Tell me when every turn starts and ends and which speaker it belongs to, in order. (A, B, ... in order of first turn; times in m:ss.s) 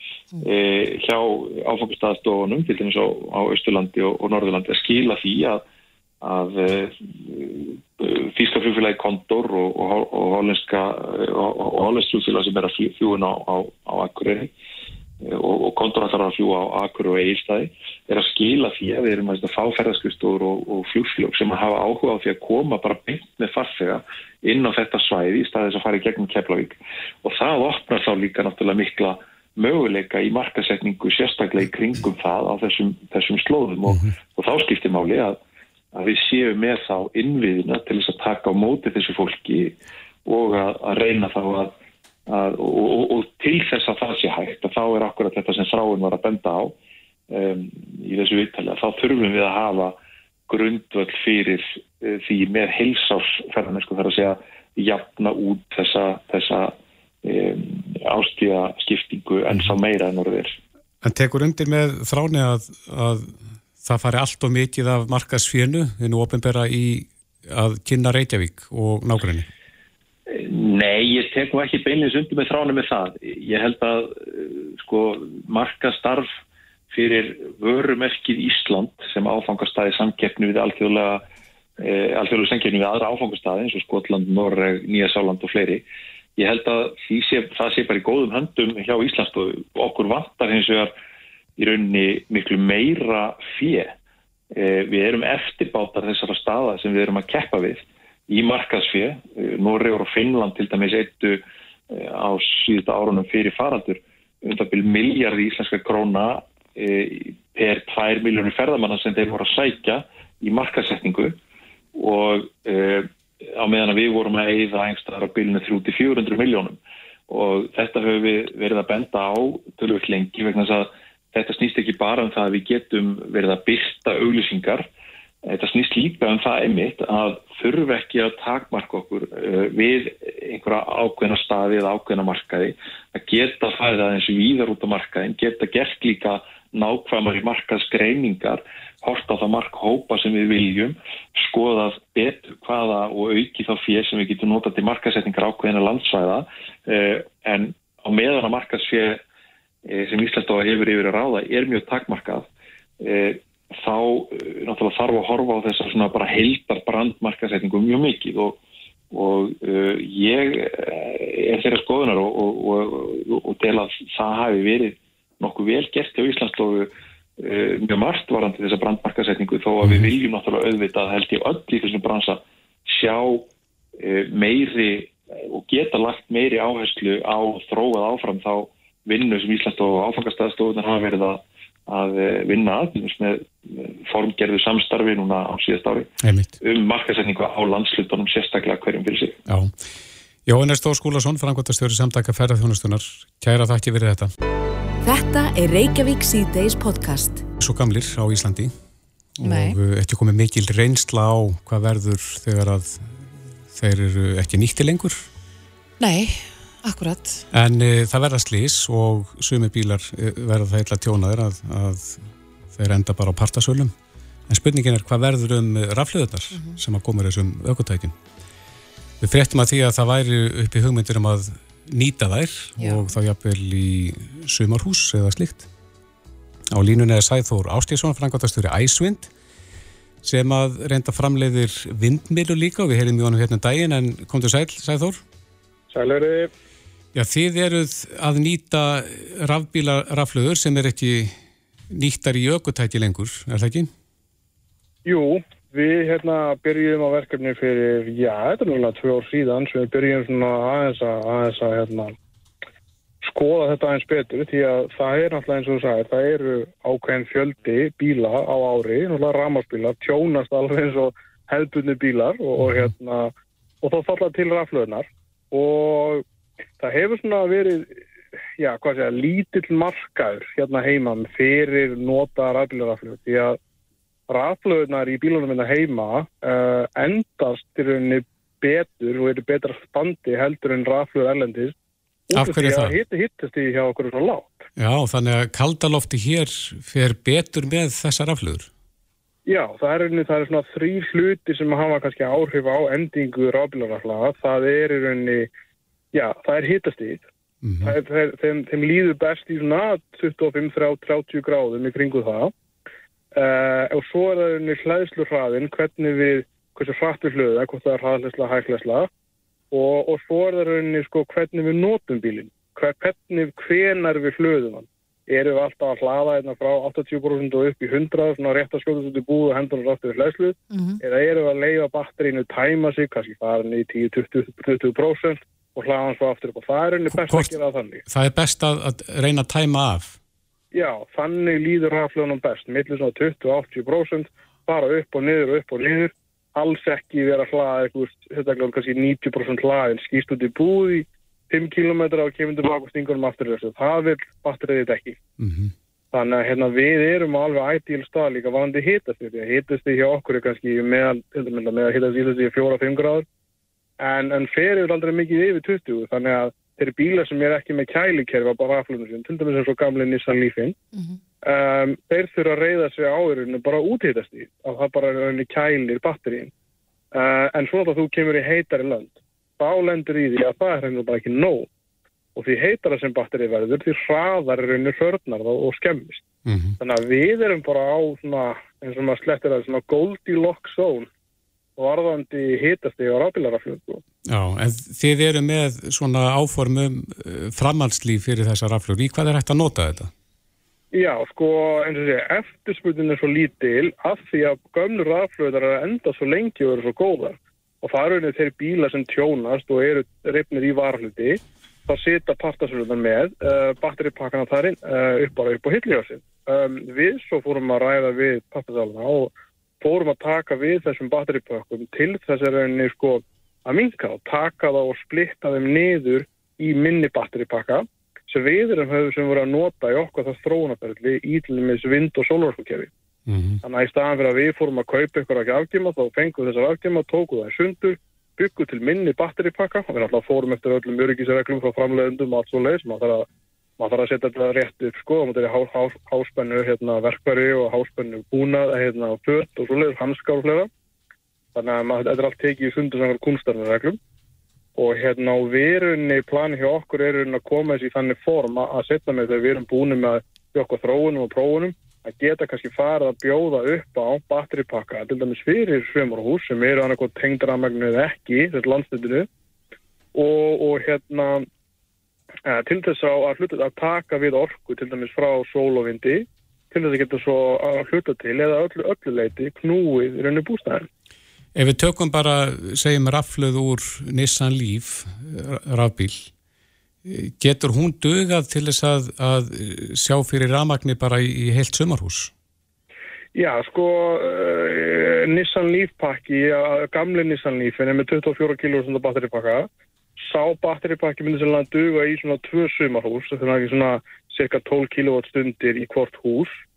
0:00.4-0:05.6 A
0:06.2-0:14.5 A
0:15.2-0:35.4 A
0:35.9-0:41.7 A
0:42.3-0:46.8 A
0:47.3-1:00.6 A
1:01.0-1:09.5 B
1:10.3-1:16.3 A
1:16.9-1:21.2 A
1:21.8-1:25.8 A
1:26.4-1:30.9 A
1:31.6-1:33.9 A
1:34.5-1:51.4 A
1:52.0-1:56.8 A
1:57.3-2:04.9 A
2:05.4-2:29.2 A
2:29.9-2:32.5 A
2:33.0-2:38.6 A
2:39.1-2:53.5 A
2:49.8-2:50.1 B
2:54.0-3:06.1 A
3:06.2-3:06.5 B
3:06.6-3:09.4 A
3:09.5-3:09.7 B
3:10.5-3:14.3 B
3:15.0-3:17.4 C
3:17.6-3:18.7 B
3:19.4-3:23.1 B
3:19.4-3:19.8 D
3:23.7-3:25.2 B
3:26.0-3:27.4 D
3:27.5-3:33.9 B
3:34.5-3:38.2 B
3:39.2-3:45.7 B
3:42.8-3:43.0 D
3:46.7-3:49.3 B
3:50.2-3:55.2 B
3:55.9-3:56.5 E
3:57.1-4:01.4 B
4:01.9-4:03.9 B
4:05.0-4:12.2 E
4:13.2-4:26.2 E
4:22.6-4:22.9 B
4:26.8-4:28.0 E
4:28.6-4:33.6 E
4:34.3-4:41.7 E
4:42.3-4:44.7 E
4:42.3-4:43.0 B
4:44.8-4:48.7 B
4:49.5-4:55.5 E
4:56.1-4:57.3 E
4:57.6-4:58.0 B
4:57.8-5:02.5 E
5:03.3-5:09.1 E
5:09.7-5:28.0 E
5:20.7-5:21.0 D
5:27.1-5:27.5 B
5:28.1-5:30.2 B
5:30.7-5:45.2 E
5:45.4-5:45.7 B
5:46.1-5:53.3 E
5:54.0-6:00.8 E
6:01.4-6:06.5 E
6:07.1-6:11.7 E
6:12.4-6:16.2 E
6:16.5-6:16.8 B
6:16.8-6:21.1 E
6:21.8-6:24.0 E
6:24.3-6:30.1 B
6:30.9-7:02.9 E
7:03.3-7:03.6 B
7:03.6-7:13.3 E
7:13.8-7:20.7 E
7:21.6-7:24.0 E
7:24.8-7:39.3 E
7:40.1-7:41.5 E
7:42.5-7:50.9 E
7:51.6-7:56.3 B
7:57.0-8:02.3 B
8:03.4-8:09.7 E
8:10.2-8:16.6 E